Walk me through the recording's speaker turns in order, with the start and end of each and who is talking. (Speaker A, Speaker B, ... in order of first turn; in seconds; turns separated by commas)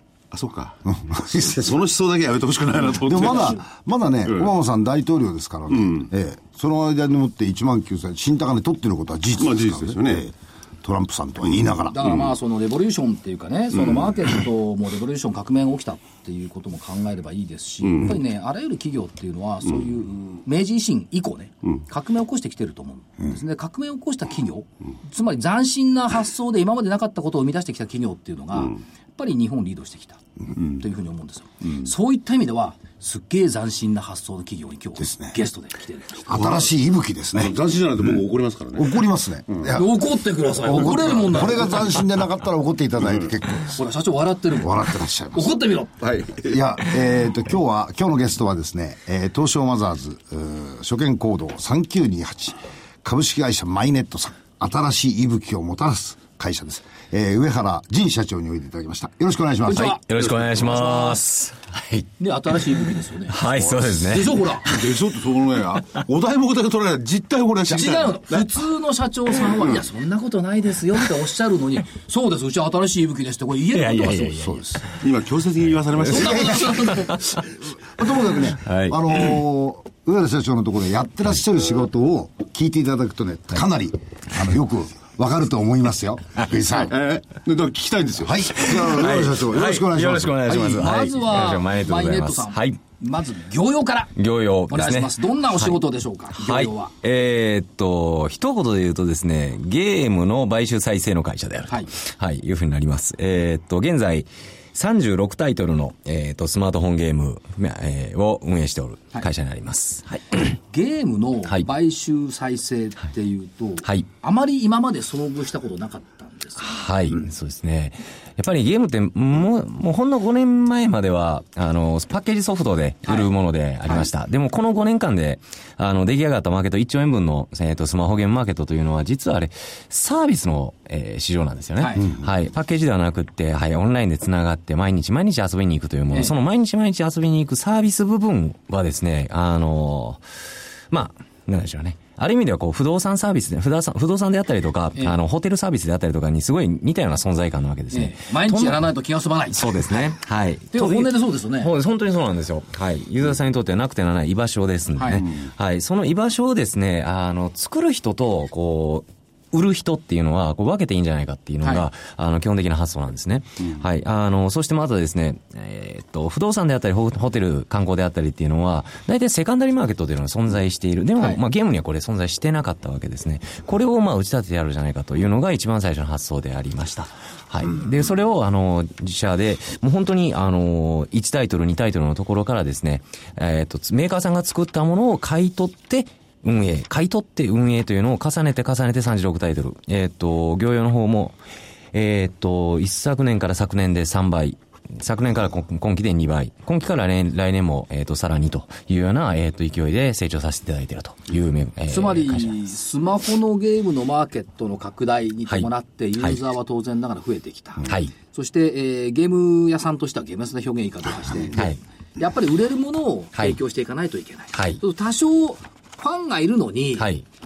Speaker A: 0.3-3.6, Speaker B: 0.9-1.8, Speaker B: 3.0-12.2, Speaker A: 5.7-6.0, Speaker A: 9.4-10.3, Speaker C: 11.9-36.5, Speaker A: 17.8-18.1, Speaker B: 35.0-35.4, Speaker B: 36.2-37.5, Speaker A: 36.3-36.7, Speaker A: 37.3-39.0, Speaker B: 38.8-40.0, Speaker C: 39.7-41.9, Speaker B: 40.6-43.7, Speaker C: 43.7-46.0, Speaker B: 44.6-45.5, Speaker A: 46.0-46.5, Speaker B: 46.4-60.0, Speaker C: 59.6-61.2, Speaker D: 59.7-62.1, Speaker C: 62.2-63.4, Speaker D: 63.3-64.6, Speaker B: 63.6-63.9, Speaker C: 64.0-64.7, Speaker A: 64.6-68.6, Speaker C: 67.7-74.8, Speaker D: 73.7-74.9, Speaker A: 75.0-76.8, Speaker C: 76.0-77.3, Speaker B: 76.0-86.9, Speaker D: 77.0-77.3, Speaker D: 78.5-79.2, Speaker A: 86.7-88.7, Speaker B: 88.2-90.9, Speaker D: 88.5-92.8, Speaker C: 90.7-94.1, Speaker D: 94.2-95.8, Speaker C: 94.7-96.9, Speaker D: 96.3-110.4, Speaker C: 110.3-116.8, Speaker D: 116.6-140.2, Speaker C: 131.8-132.1, Speaker D: 140.9-148.8, Speaker C: 147.9-150.2, Speaker D: 149.5-191.4, Speaker C: 150.7-151.7, Speaker C: 155.0-155.2, Speaker D: 191.9-202.5, Speaker C: 201.9-217.1, Speaker D: 207.8-208.1, Speaker D: 214.5-214.8, Speaker D: 217.0-217.2